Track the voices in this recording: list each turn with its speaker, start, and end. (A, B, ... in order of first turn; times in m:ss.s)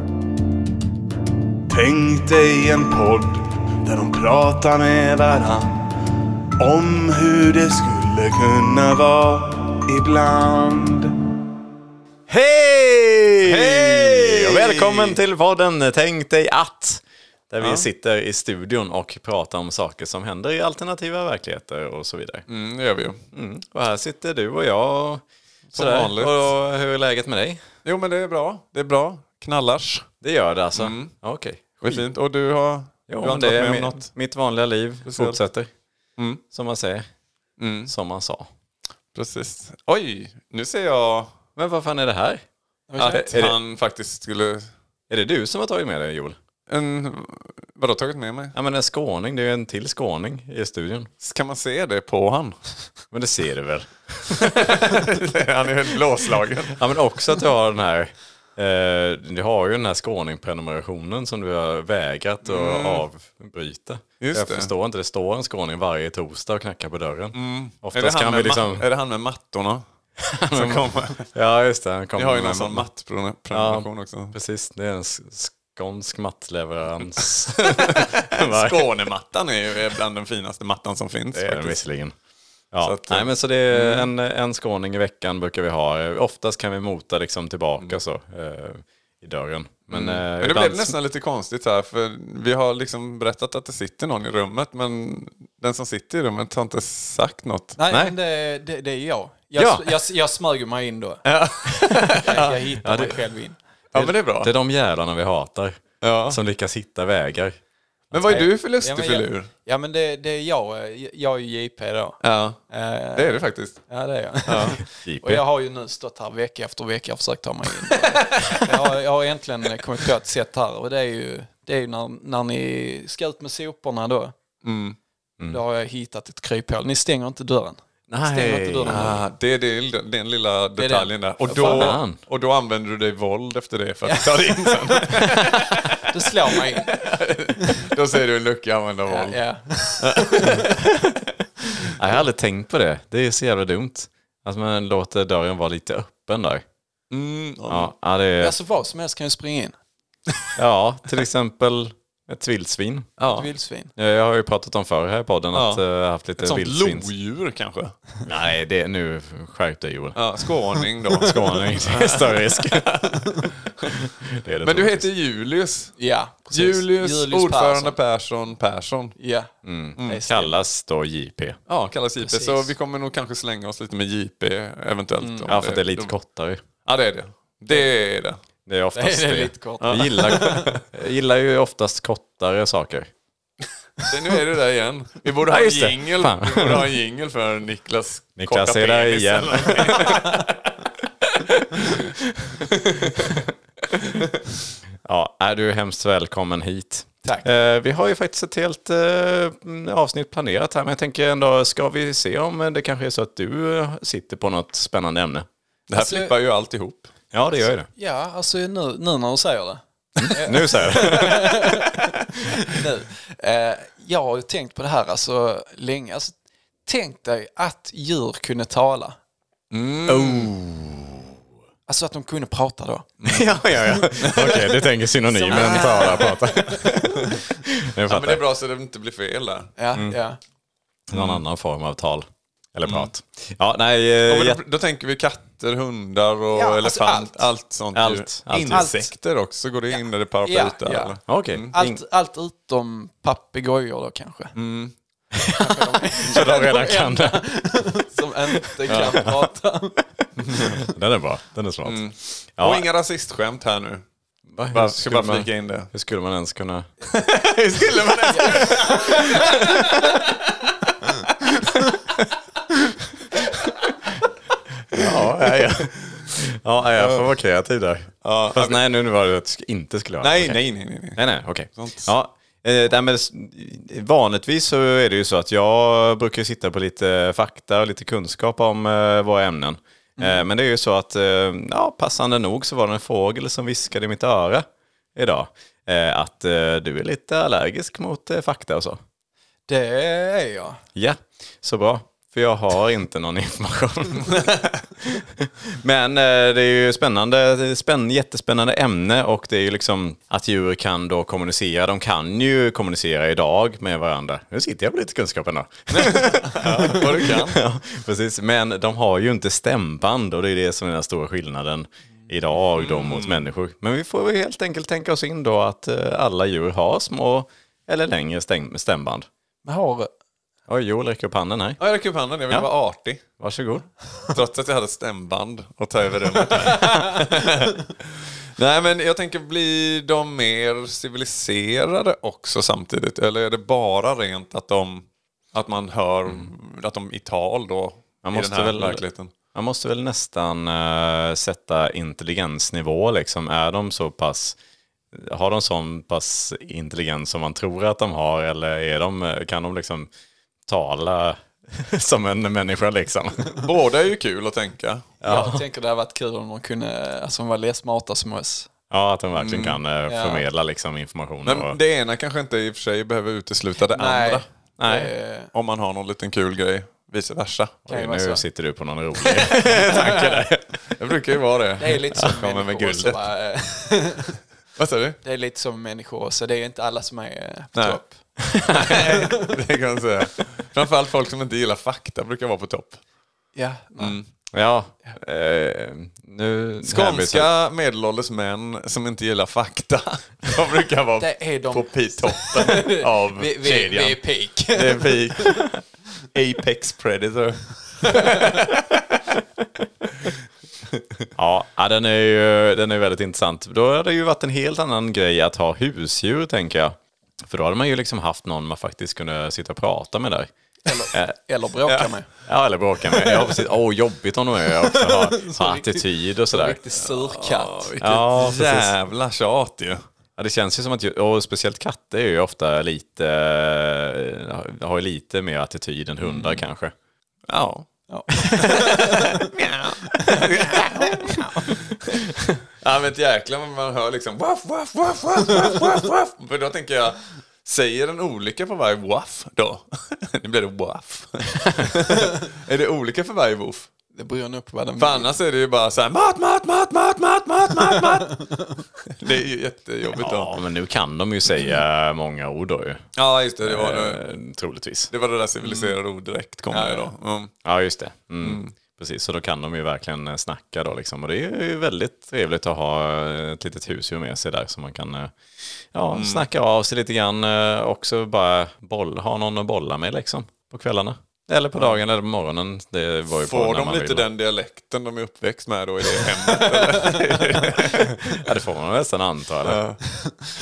0:01.7-0:05.7 A
0:06.6-0:11.1 A
0:12.3-0:22.4 B
0:13.4-0:15.2 C
0:17.6-0:17.9 C
0:22.5-0:23.2 C
0:23.3-0:25.2 B
0:25.7-0:26.5 C
0:25.7-0:27.6 B
0:27.8-0:30.1 C
0:30.2-0:32.0 B
0:30.7-0:31.1 C
0:31.8-0:34.1 C
0:33.1-0:35.7 B
0:35.0-0:35.4 C
0:36.2-0:36.4 C
0:36.5-0:37.1 B
0:37.6-0:37.9 C
0:37.9-0:38.5 B
0:39.1-0:41.4 C
0:41.6-0:42.4 B
0:42.9-0:43.4 D
0:43.0-0:44.7 C
0:43.3-0:43.6 B
0:45.1-0:46.4 B
0:46.7-0:48.6 C
0:48.5-0:51.1 B
0:51.2-0:52.9 C
0:53.1-0:55.0 B
0:54.4-0:56.8 C
0:56.7-1:08.8 B
1:02.4-1:03.0 C
1:04.2-1:04.7 C
1:07.3-1:09.8 C
1:10.2-1:12.9 B
1:10.5-1:11.3 C
1:12.2-1:14.4 C
1:13.5-1:18.9 B
1:17.6-1:21.8 C
1:21.3-1:22.1 B
1:22.7-1:30.9 B
1:22.8-1:24.1 C
1:29.9-1:37.8 C
1:37.8-1:41.2 D
1:37.9-1:38.1 B
1:39.5-1:40.0 B
1:41.2-1:42.6 C
1:41.7-1:42.2 B
1:42.1-1:43.6 D
1:42.8-1:43.2 B
1:43.9-1:44.5 C
1:43.9-1:47.6 B
1:46.0-1:46.4 C
1:48.1-1:49.5 C
1:48.1-1:48.4 B
1:48.2-2:04.3 D
1:52.2-1:52.6 C
1:53.1-1:53.8 C
1:54.4-1:54.8 C
1:55.0-1:55.4 B
1:58.4-1:58.7 B
2:04.6-2:05.0 C
2:05.5-2:09.2 D
2:08.1-2:09.2 B
2:08.9-2:19.4 C
2:10.8-2:12.0 D
2:11.5-2:12.2 B
2:14.0-2:17.8 D
2:19.0-2:20.8 D
2:20.0-2:20.6 C
2:20.8-2:21.2 B
2:21.8-2:26.6 B
2:27.1-2:27.9 C
2:27.7-2:28.5 B
2:28.4-2:29.7 D
2:30.6-2:33.1 B
2:33.2-2:33.5 C
2:33.2-2:33.9 D
2:34.0-2:37.1 B
2:35.5-2:35.8 C
2:36.4-2:38.0 C
2:38.2-2:40.2 B
2:40.1-2:44.0 C
2:41.2-2:43.1 B
2:43.9-2:45.0 B
2:44.6-2:45.9 C
2:46.0-2:48.0 D
2:46.5-2:49.2 C
2:49.2-2:50.5 D
2:49.6-2:51.6 B
2:50.0-2:50.2 C
2:51.7-2:56.1 C
2:52.2-2:52.7 D
2:55.2-2:55.6 D
2:55.5-2:56.6 B
2:56.8-2:58.4 C
2:58.6-3:03.1 B
2:58.9-3:00.7 D
2:59.8-3:00.8 C
3:04.1-3:10.6 C
3:05.5-3:06.9 B
3:08.4-3:10.4 B
3:12.0-3:12.6 B
3:12.7-3:13.3 C
3:13.2-3:13.5 B
3:15.0-3:25.5 B
3:25.9-3:27.2 C
3:25.9-3:26.3 D
3:27.3-3:27.9 B
3:28.0-3:36.3 D
3:30.2-3:31.6 B
3:36.8-3:39.2 D
3:39.7-3:40.5 C
3:40.1-3:41.2 B
3:41.9-3:43.1 D
3:43.2-3:43.5 C
3:43.2-3:48.4 B
3:44.2-3:44.6 C
3:44.3-3:44.6 D
3:45.3-3:46.8 D
3:45.4-3:46.3 C
3:47.0-3:47.6 C
3:48.1-3:50.1 C
3:49.8-3:50.4 D
3:51.1-3:54.6 B
3:51.1-3:51.4 C
3:52.8-3:53.1 C
3:54.2-4:01.7 C
3:56.5-3:57.5 D
3:57.9-3:58.9 B
3:58.7-3:59.1 D
3:59.9-4:01.2 D
4:01.3-4:02.0 B
4:01.7-4:04.5 D
4:04.5-4:04.9 C
4:05.3-4:07.9 B
4:05.5-4:10.0 D
4:08.9-4:09.2 C
4:10.2-4:12.0 B
4:10.4-4:10.8 C
4:11.8-4:14.0 C
4:12.6-4:12.8 B
4:14.5-4:16.9 B
4:14.7-4:15.9 C
4:17.1-4:20.4 C
4:18.3-4:19.5 D
4:21.0-4:21.6 C
4:24.9-4:30.6 B
4:24.9-4:26.4 C
4:27.0-4:27.2 C
4:28.2-4:28.8 C
4:30.2-4:31.2 C
4:31.2-4:49.0 B
4:31.8-4:32.1 C
4:49.7-4:50.8 D
4:50.9-5:19.3 B
5:05.9-5:07.6 C
5:12.8-5:13.4 C
5:19.6-5:20.1 D
5:20.7-5:21.8 B
5:21.8-5:23.2 C
5:23.4-5:23.9 B
5:24.3-5:39.3 C
5:38.2-5:39.0 B
5:39.5-5:44.6 B
5:45.1-5:50.1 B
5:50.7-5:53.6 B
5:53.5-5:55.1 C
5:55.2-5:55.6 B
5:55.2-5:58.7 D
5:58.9-6:01.8 B
5:59.3-5:59.8 C
6:00.0-6:00.4 D
6:01.4-6:04.4 C
6:03.9-6:05.5 D
6:04.8-6:05.1 B
6:05.5-6:07.8 C
6:07.8-6:10.6 B
6:07.9-6:08.4 D
6:09.5-6:10.4 D
6:10.0-6:10.3 C
6:10.9-6:13.2 C
6:11.8-6:14.4 D
6:14.8-6:15.2 C
6:15.2-6:18.2 D
6:17.7-6:18.0 C
6:18.5-6:19.0 B
6:18.7-6:23.0 C
6:19.0-6:19.5 D
6:23.5-6:24.2 D
6:24.0-6:24.2 C
6:24.5-6:27.5 B
6:26.8-6:35.6 C
6:31.2-6:35.5 D
6:36.3-6:39.2 C
6:38.0-6:38.4 D
6:41.4-6:50.5 B
6:50.8-6:52.3 D
6:52.4-6:56.8 B
6:54.8-6:57.9 D
6:56.9-7:00.0 C
6:58.0-6:58.9 B
7:00.4-7:06.9 B
7:06.2-7:06.6 C
7:07.5-7:07.9 C
7:08.1-7:09.3 D
7:08.5-7:08.8 B
7:08.6-7:12.3 C
7:10.2-7:11.7 D
7:12.8-7:23.9 C
7:24.1-7:25.3 D
7:25.0-7:30.5 C
7:30.1-7:33.0 B
7:33.1-7:34.2 C
7:33.6-7:35.1 B
7:35.1-7:37.5 C
7:36.7-7:37.0 D
7:37.6-7:45.3 B
7:38.4-7:38.7 C
7:45.9-7:54.3 B
7:46.1-7:46.4 C
7:53.4-7:58.2 C
7:56.9-7:57.6 D
7:57.8-7:59.8 B
7:59.6-8:00.0 C